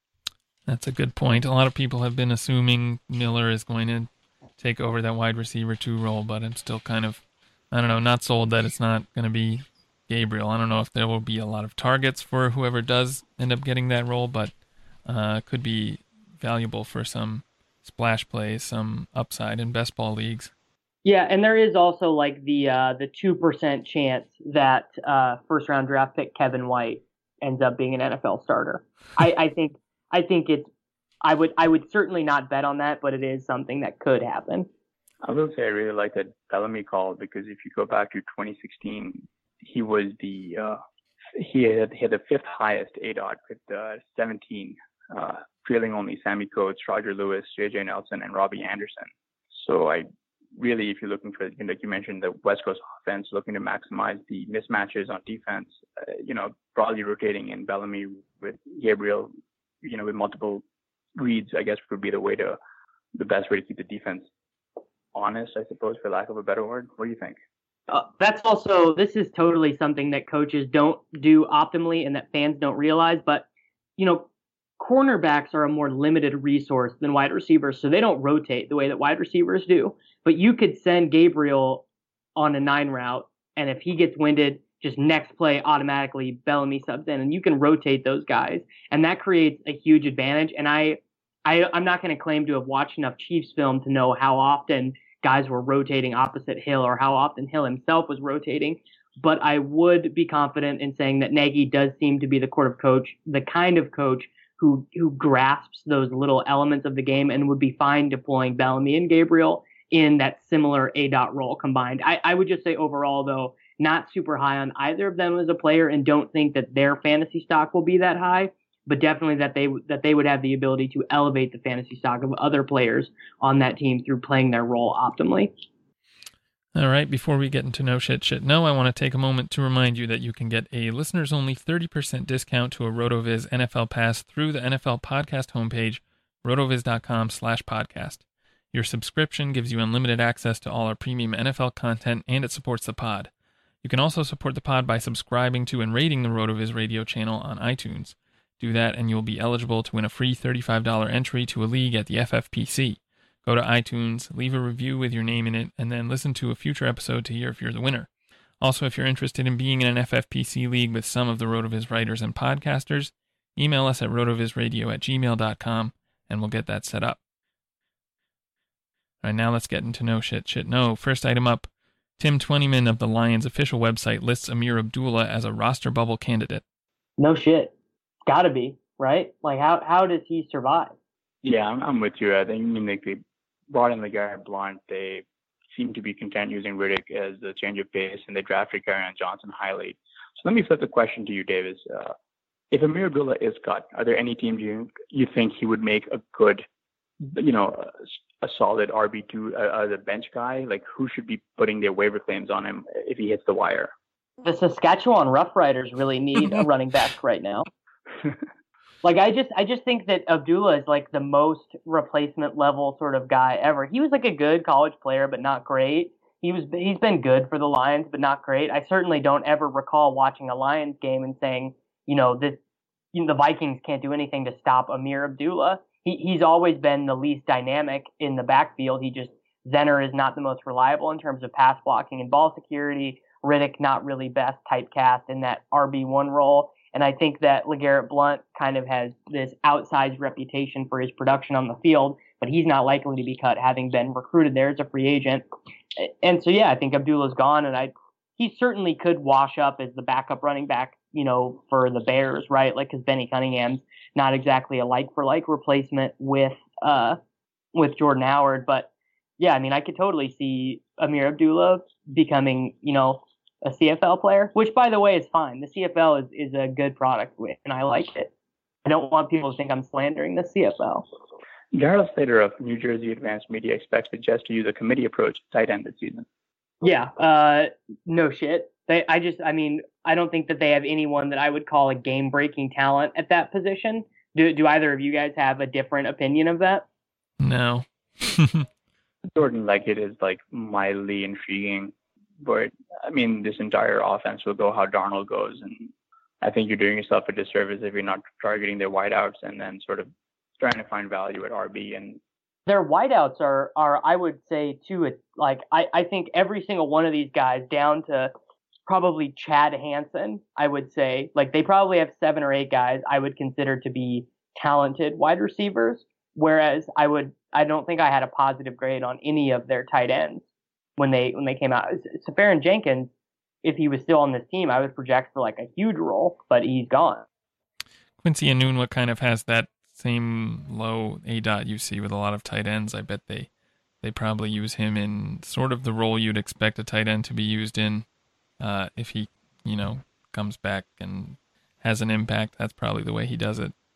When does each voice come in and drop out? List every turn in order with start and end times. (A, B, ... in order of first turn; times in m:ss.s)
0:00.7-0:14.5 A
0:15.0-0:20.5 A
0:21.0-0:30.7 B
0:31.2-0:34.7 B
0:35.2-0:40.8 C
0:41.4-1:00.6 C
1:01.2-1:02.6 C
1:03.1-1:04.2 C
1:05.1-1:07.3 C
1:07.9-1:13.5 B
1:14.0-1:14.3 B
1:14.8-1:21.8 B
1:22.4-2:05.5 B
2:06.7-2:18.2 A
2:18.7-2:23.3 A
2:23.8-2:38.1 A
2:38.6-2:47.2 A
2:49.2-2:56.6 A
2:57.2-2:57.7 B
2:58.3-3:00.9 B
3:01.4-3:12.1 C
3:12.7-3:16.6 C
3:17.2-3:23.9 C
3:24.4-3:27.6 B
3:29.0-3:42.6 B
3:43.1-4:05.4 B
4:06.0-4:17.2 B
4:17.7-4:28.3 B
4:28.8-4:31.0 B
4:31.7-4:36.2 C
4:36.8-4:46.8 B
4:47.4-4:48.6 A
4:49.3-5:00.1 C
5:00.6-5:02.2 C
5:02.7-5:08.3 B
5:08.9-5:20.4 B
5:21.0-5:23.1 B
5:23.6-5:27.2 B
5:28.2-5:33.5 A
5:34.0-5:38.0 A
5:38.6-5:43.7 A